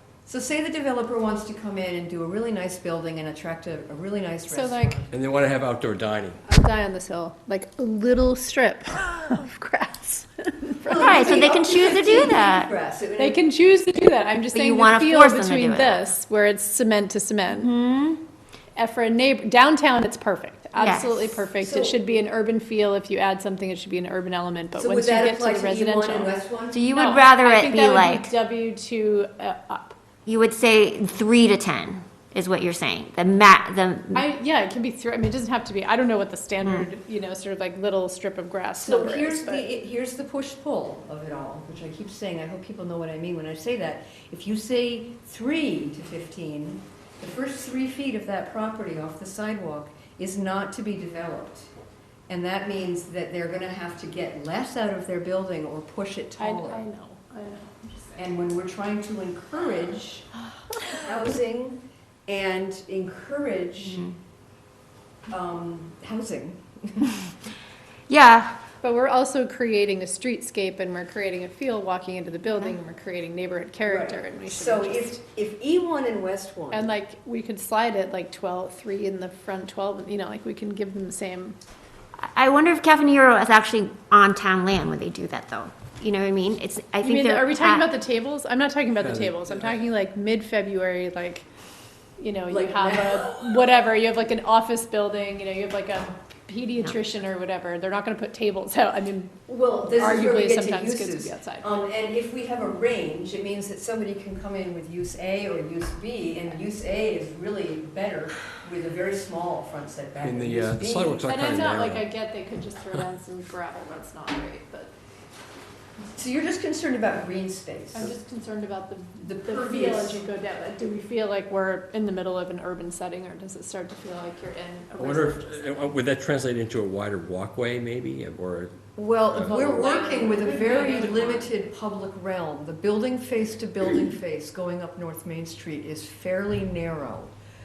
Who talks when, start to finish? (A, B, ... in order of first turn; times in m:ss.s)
0:00.3-0:05.1 A
0:04.5-0:05.1 B
0:05.1-0:06.4 C
0:06.4-0:12.3 B
0:10.8-0:13.4 A
0:11.0-0:12.7 D
0:13.2-0:17.7 B
0:14.5-0:16.1 D
0:17.5-0:18.2 D
0:18.8-0:26.3 B
0:20.8-0:21.4 D
0:21.6-0:22.0 A
0:24.8-0:26.8 A
0:26.7-0:28.3 D
0:26.9-0:30.0 B
0:30.3-0:34.2 D
0:34.1-0:39.7 B
0:36.6-0:36.9 D
0:38.8-0:51.7 A
0:52.3-0:56.8 A
0:56.4-0:58.3 B
0:58.2-1:00.3 A
1:00.9-1:04.1 A
1:03.8-1:04.2 D
1:05.3-1:07.2 A
1:08.1-1:08.6 D
1:08.8-1:15.2 B
1:13.9-1:16.9 A
1:16.7-1:21.6 B
1:22.2-1:27.9 D
1:27.0-1:31.5 B
1:29.0-1:29.8 C
1:32.2-1:39.4 B
1:32.5-1:33.3 A
1:39.5-1:51.2 A
1:39.9-1:41.8 B
1:50.2-1:52.1 C
1:51.3-1:54.9 B
1:56.2-1:58.1 A
1:57.9-2:05.9 B
1:59.2-2:00.3 A
2:05.0-2:08.8 C
2:09.0-2:17.3 A
2:09.3-2:09.7 C
2:09.4-2:11.5 B